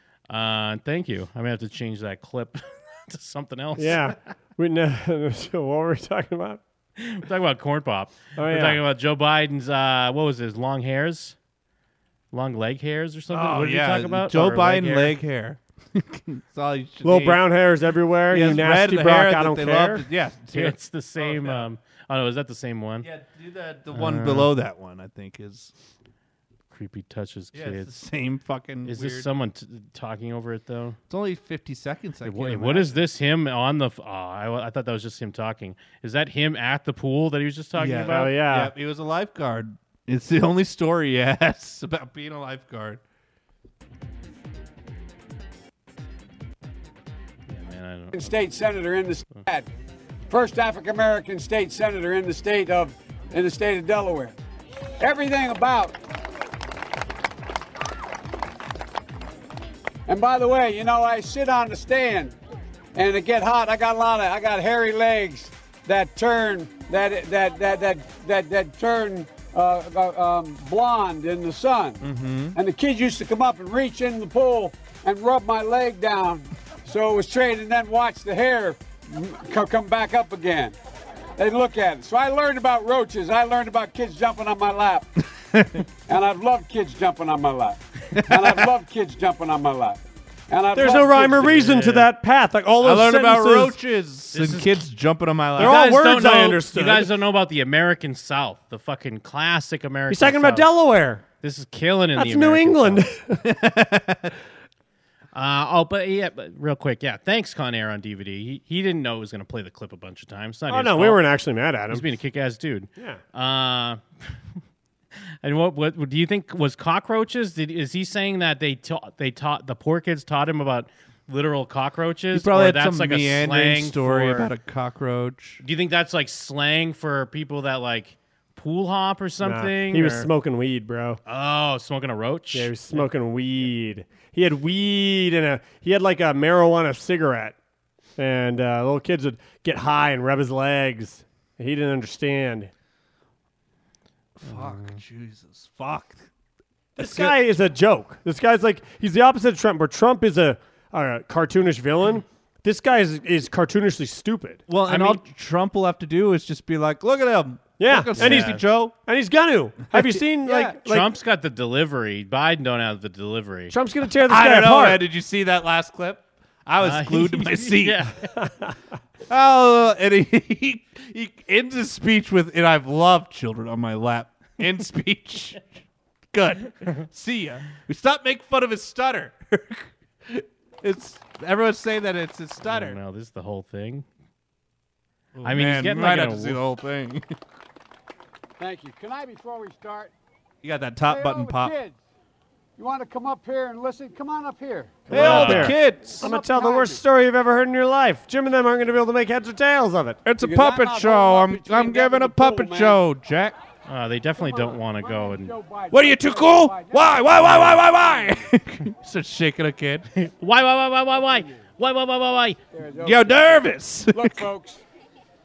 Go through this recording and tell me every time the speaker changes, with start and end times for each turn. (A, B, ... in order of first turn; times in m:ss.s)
0:00.3-0:04.1 A
0:03.8-0:06.6 B
0:07.0-0:11.4 A
0:08.4-0:08.8 B
0:12.3-0:15.2 A
0:13.3-0:17.4 C
0:17.0-0:20.1 B
0:18.3-0:21.7 C
0:20.5-0:23.1 A
0:23.0-0:25.7 C
0:23.9-0:24.5 A
0:26.7-0:27.9 A
0:27.5-0:29.3 C
0:28.8-0:31.0 A
0:31.1-0:33.0 C
0:32.2-0:38.4 A
0:37.8-0:43.0 C
0:38.1-0:38.7 B
0:47.5-0:48.3 A
0:48.1-0:49.7 D
0:50.3-0:54.4 D
0:55.0-0:56.0 D
1:00.1-1:02.4 D
1:03.0-1:20.8 D
1:12.0-1:12.6 C
1:21.4-1:25.1 D
1:25.4-1:25.9 C
1:26.1-1:31.6 D
1:28.1-1:28.7 C
1:30.7-1:33.8 B
1:32.8-1:35.8 C
1:34.3-1:34.8 A
1:35.6-1:37.1 B
1:35.6-1:40.7 A
1:40.1-1:41.2 B
1:41.4-1:43.1 A
1:42.2-1:43.4 B
1:43.4-1:44.4 C
1:45.3-1:51.2 A
1:50.7-1:52.1 B
1:51.9-1:54.0 A
1:55.4-2:04.5 A
2:02.3-2:05.6 C
2:05.6-2:10.3 A
2:09.4-2:11.2 B
2:11.3-2:13.0 A
2:12.5-2:17.6 B
2:18.2-2:22.7 B
2:24.4-2:26.3 C
2:24.5-2:25.0 A
2:27.0-2:27.5 C
2:27.0-2:34.6 B
2:34.7-2:39.0 C
2:34.9-2:35.2 A
2:37.8-2:41.1 B
2:38.2-2:38.7 A
2:39.9-2:40.8 C
2:40.8-2:43.7 A
2:43.7-2:45.0 B
2:44.3-2:48.1 C
2:46.8-2:48.3 A
2:49.3-3:03.0 C
3:02.6-3:04.1 A
3:05.4-3:07.3 C
3:05.4-3:06.6 A
3:08.6-3:10.1 D
3:10.6-3:11.7 C
3:11.0-3:12.0 D
3:12.8-3:15.1 D
3:15.1-3:20.2 B
3:15.1-3:16.3 C
3:15.1-3:15.8 A
3:16.2-3:17.0 D
3:20.2-3:23.6 C
3:20.4-3:23.0 D
3:23.9-3:25.5 A
3:24.4-3:28.4 D
3:25.9-3:30.1 C
3:30.1-3:32.6 A
3:31.3-3:31.6 D
3:32.7-3:34.8 D
3:33.0-3:34.5 C